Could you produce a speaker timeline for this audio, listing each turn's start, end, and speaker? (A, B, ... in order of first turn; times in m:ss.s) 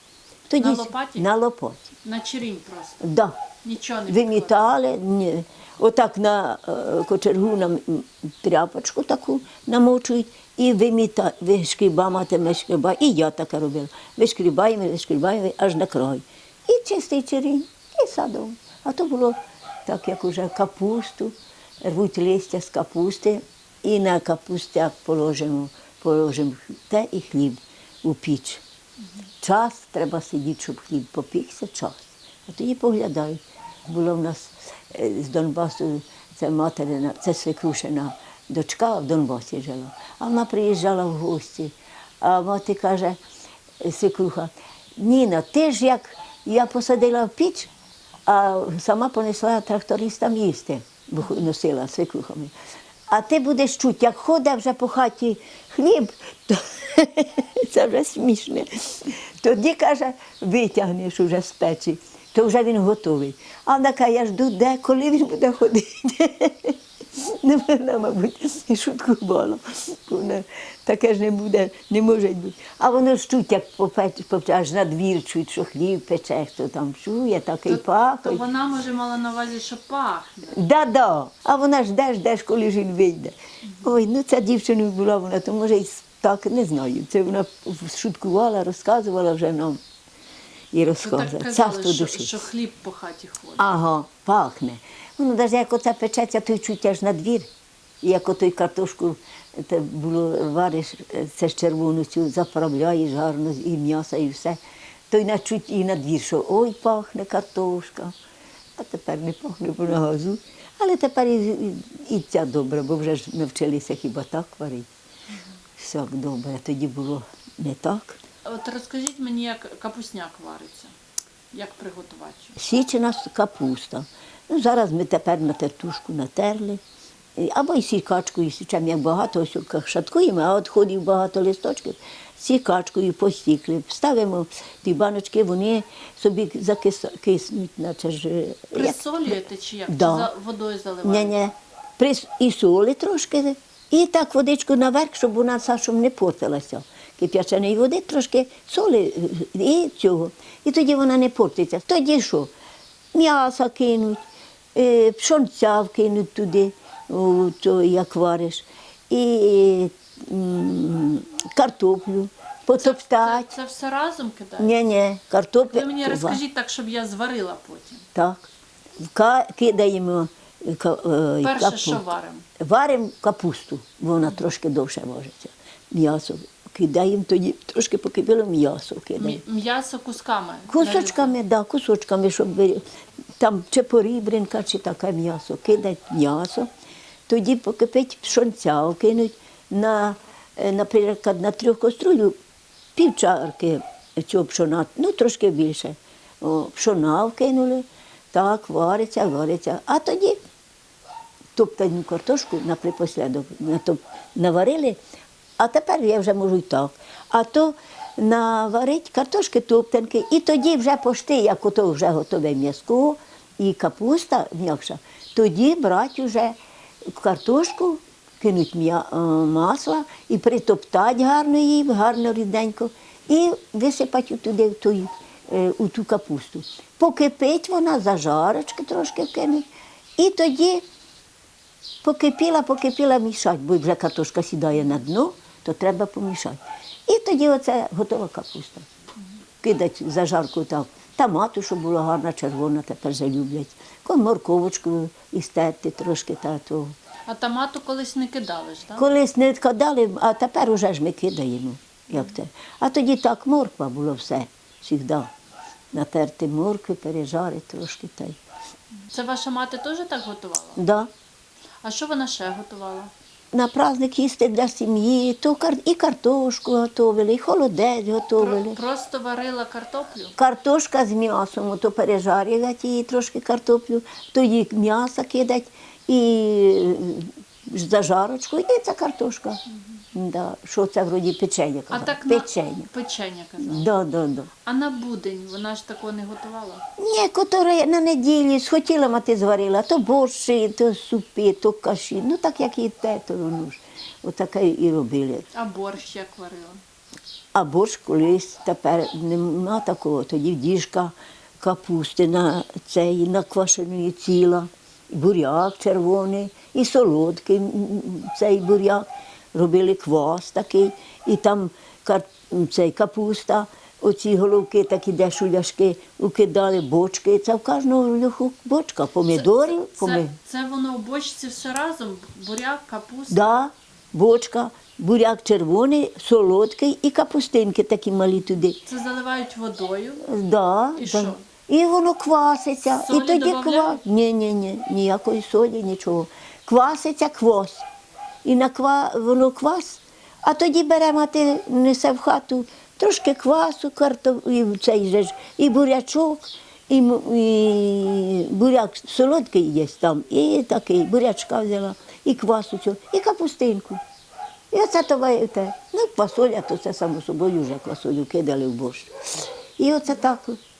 0:00.5-0:01.9 A
0:00.5-0:01.3 B
0:02.0-0:03.1 B
0:03.0-0:03.4 A
0:03.6-0:04.6 B
0:04.1-0:28.6 A
0:29.4-0:43.2 A
0:43.8-0:47.7 A
0:48.3-0:52.5 A
0:53.1-1:18.4 A
1:17.7-1:20.6 B
1:20.5-1:29.8 A
1:30.7-1:32.4 A
1:31.0-1:33.6 B
1:33.6-1:37.5 A
1:38.0-1:48.2 A
1:48.8-1:54.9 A
1:55.8-1:58.2 A
1:58.4-2:00.9 B
2:01.5-2:02.6 B
2:02.6-2:06.8 A
2:07.4-2:19.3 A
2:18.7-2:21.5 B
2:19.9-2:20.3 A
2:21.0-2:32.5 A
2:33.1-2:34.2 A
2:34.7-2:43.5 A
2:42.7-2:44.8 B
2:44.6-2:46.4 A
2:45.7-2:48.1 B
2:48.2-2:48.5 A
2:49.0-2:52.0 A
2:51.4-2:52.5 B
2:52.6-2:59.4 A
2:59.2-3:01.4 B
3:00.7-3:02.8 A
3:03.4-3:06.7 A
3:07.3-3:12.4 A
3:13.0-3:20.4 A
3:21.6-3:25.0 A
3:25.6-3:50.8 A
3:52.0-3:58.9 A
3:59.6-4:07.0 A
4:07.3-4:09.1 B
4:09.0-4:15.3 A
4:15.9-4:18.4 A
4:19.1-4:20.8 B
4:20.8-4:21.1 A
4:21.8-4:23.1 B
4:23.5-4:28.8 A
4:28.4-4:30.4 B
4:30.4-4:39.6 A
4:40.1-4:42.9 A
4:41.9-4:43.9 B
4:43.6-4:44.5 A
4:44.7-4:46.8 B
4:47.0-4:55.4 A
4:55.5-4:56.8 B
4:57.5-5:20.3 A
5:19.3-5:23.7 B
5:23.3-5:28.8 A
5:28.8-5:30.3 B
5:30.2-5:37.9 A
5:31.0-5:31.4 B
5:32.9-5:34.0 B
5:38.4-5:54.0 A
5:54.7-6:00.6 A